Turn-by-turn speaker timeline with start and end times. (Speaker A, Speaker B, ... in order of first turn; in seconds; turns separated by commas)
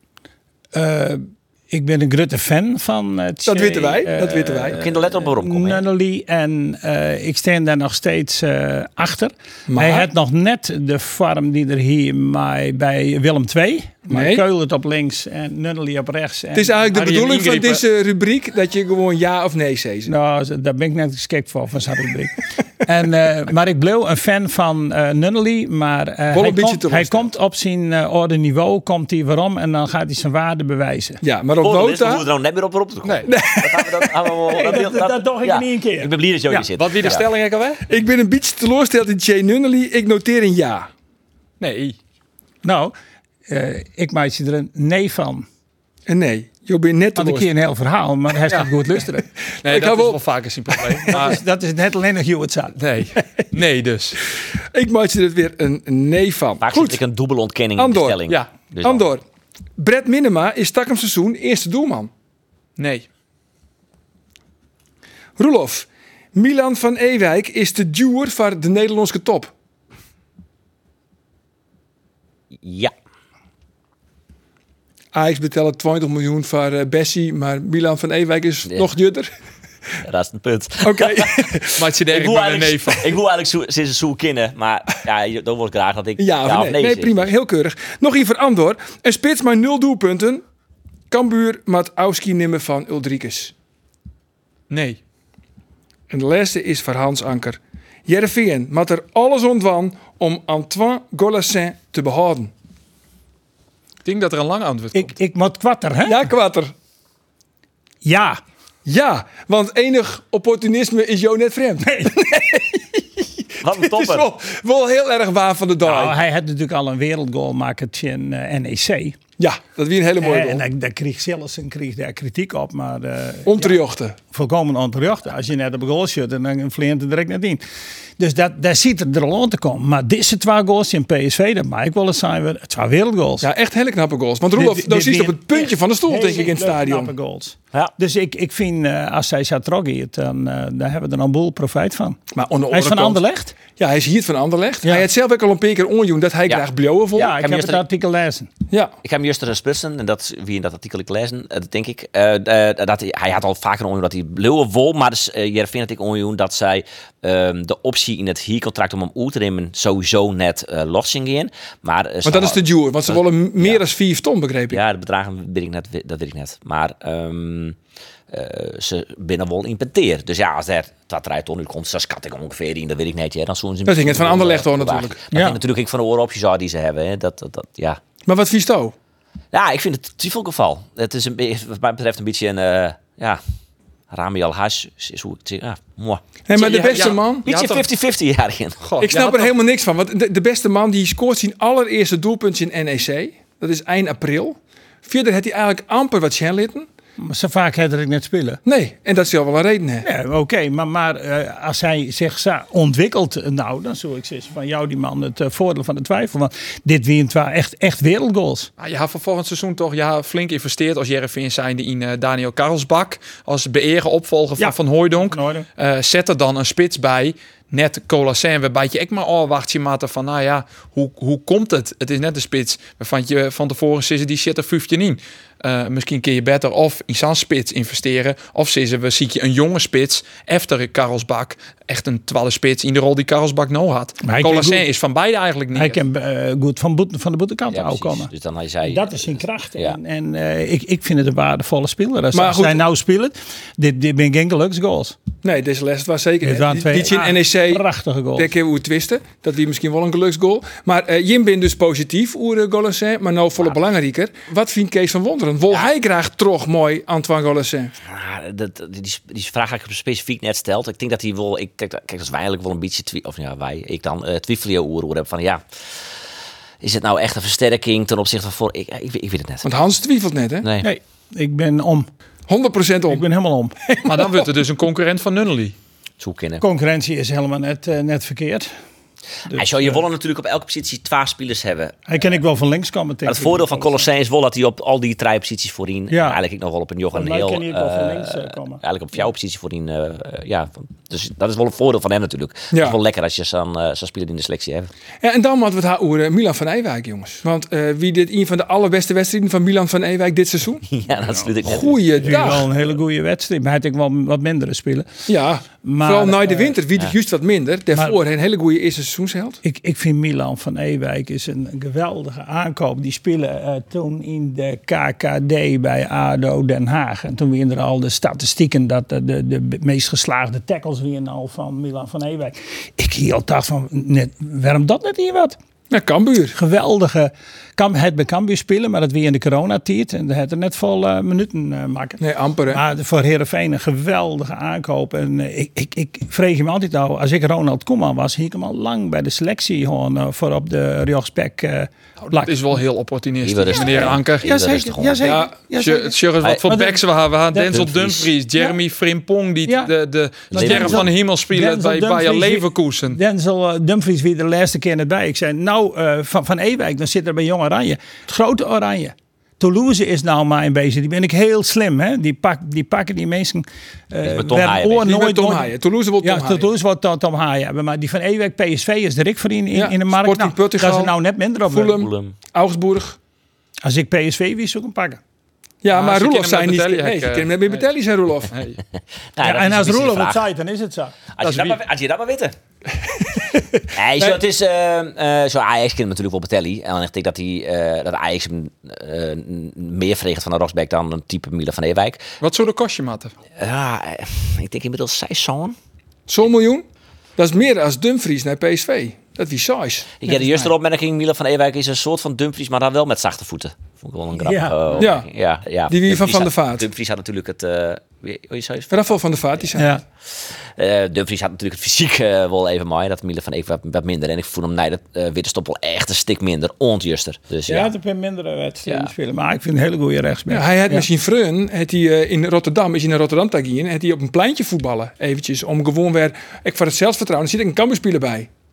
Speaker A: 0.7-16.8, Speaker B: 3.5-4.8, Speaker C: 4.8-5.8, Speaker B: 9.7-10.1, Speaker B: 14.1-14.4, Speaker B: 16.5-20.1, Speaker D: 16.9-17.8, Speaker A: 20.1-31.2, Speaker B: 26.3-27.3, Speaker B: 31.2-32.2, Speaker C: 31.6-37.2, Speaker B: 33.3-34.1, Speaker A: 34.5-36.6, Speaker D: 36.7-37.8, Speaker B: 37.9-40.9, Speaker D: 41.6-42.0, Speaker A: 42.6-42.9, Speaker A: 43.5-45.5, Speaker B: 46.1-47.5, Speaker A: 47.1-49.2, Speaker B: 49.5-50.2, Speaker D: 49.6-51.4, Speaker B: 50.7-51.3, Speaker A: 51.1-52.7, Speaker D: 52.8-54.2, Speaker B: 54.7-57.0, Speaker C: 56.6-59.1, Speaker B: 57.8-58.2, Speaker B: 58.8-59.2, Speaker B: 59.8-62.1, Speaker D: 62.8-63.1, Speaker B: 65.4-69.5, Speaker C: 72.6-72.9, Speaker B: 75.1-79.3, Speaker C: 80.0-81.4, Speaker B: 80.8-81.8, Speaker D: 81.8-83.2, Speaker C: 82.1-87.3, Speaker B: 86.2-90.4, Speaker B: 91.1-93.5, Speaker D: 94.7-95.0, Speaker B: 96.1-102.5, Speaker D: 104.0-105.2, Speaker A: 104.9-106.2, Speaker B: 106.0-106.7, Speaker A: 108.0-108.4, Speaker B: 108.8-116.2, Speaker A: 111.8-112.2, Speaker C: 113.6-114.3, Speaker A: 115.8-119.2, Speaker B: 119.4-120.6, Speaker A: 120.2-123.8, Speaker B: 123.5-124.2, Speaker A: 124.3-127.6, Speaker A: 128.2-133.5, Speaker B: 133.4-137.1, Speaker A: 134.6-142.2, Speaker B: 142.3-143.2, Speaker A: 142.7-143.5, Speaker B: 143.8-147.3, Speaker A: 147.2-148.5, Speaker C: 147.2-147.8, Speaker C: 149.0-163.8, Speaker B: 162.2-164.8, Speaker C: 164.7-167.8, Speaker C: 168.3-178.0, Speaker B: 173.8-175.2, Speaker A: 175.3-175.6, Speaker B: 178.2-178.9, Speaker C: 179.5-183.4, Speaker C: 184.1-188.8, Speaker B: 186.5-187.4, Speaker D: 186.5-187.8, Speaker D: 188.8-189.5, Speaker B: 189.0-196.9, Speaker A: 197.2-198.6, Speaker B: 198.6-200.1, Speaker A: 200.0-208.7, Speaker D: 208.8-236.0, Speaker A: 214.6-215.7, Speaker A: 234.2-234.8, Speaker A: 235.7-238.3, Speaker C: 237.7-240.0, Speaker A: 238.8-245.2, Speaker B: 242.3-242.8, Speaker B: 245.4-247.8, Speaker A: 246.4-248.5, Speaker B: 248.3-257.9, Speaker C: 258.0-265.6, Speaker C: 266.8-269.6, Speaker B: 269.6-270.6, Speaker C: 270.6-270.9, Speaker A: 270.8-272.1, Speaker B: 272.5-273.2, Speaker A: 273.1-273.7, Speaker B: 273.9-274.5, Speaker D: 274.0-275.8, Speaker C: 276.2-276.6, Speaker A: 276.6-278.7, Speaker A: 279.5-280.0, Speaker C: 279.5-282.3, Speaker A: 282.1-284.1, Speaker C: 283.2-294.9, Speaker A: 286.1-286.4, Speaker A: 287.1-288.8, Speaker B: 295.2-300.8, Speaker C: 300.9-302.3, Speaker B: 301.6-302.7, Speaker A: 302.2-305.1, Speaker B: 305.3-309.6, Speaker A: 305.8-306.8, Speaker A: 309.6-325.6, Speaker B: 325.9-326.6, Speaker A: 326.5-342.8, Speaker B: 332.2-332.8, Speaker D: 342.3-344.5, Speaker C: 343.4-345.3, Speaker A: 343.9-347.0, Speaker B: 345.2-345.5, Speaker D: 345.7-353.2, Speaker A: 347.5-347.8, Speaker C: 347.7-348.2, Speaker C: 350.5-351.1, Speaker A: 350.5-372.0, Speaker C: 364.2-365.1, Speaker B: 365.0-366.7, Speaker B: 369.7-371.1, Speaker B: 371.7-373.2, Speaker C: 372.0-372.3, Speaker A: 373.8-375.2, Speaker B: 375.8-378.5, Speaker D: 375.9-377.9, Speaker D: 378.5-378.8, Speaker C: 379.3-380.4, Speaker A: 379.4-381.1, Speaker C: 381.4-382.5, Speaker D: 381.4-381.8, Speaker B: 383.2-384.4, Speaker C: 383.9-392.2, Speaker D: 392.4-393.3, Speaker C: 393.6-395.8, Speaker B: 396.3-396.8, Speaker B: 397.4-400.4, Speaker C: 400.2-408.9, Speaker A: 404.4-405.1, Speaker B: 405.0-405.3, Speaker B: 405.9-406.8, Speaker B: 408.9-409.9, Speaker A: 409.8-410.0, Speaker C: 410.8-417.9, Speaker A: 417.7-421.1, Speaker B: 420.5-428.5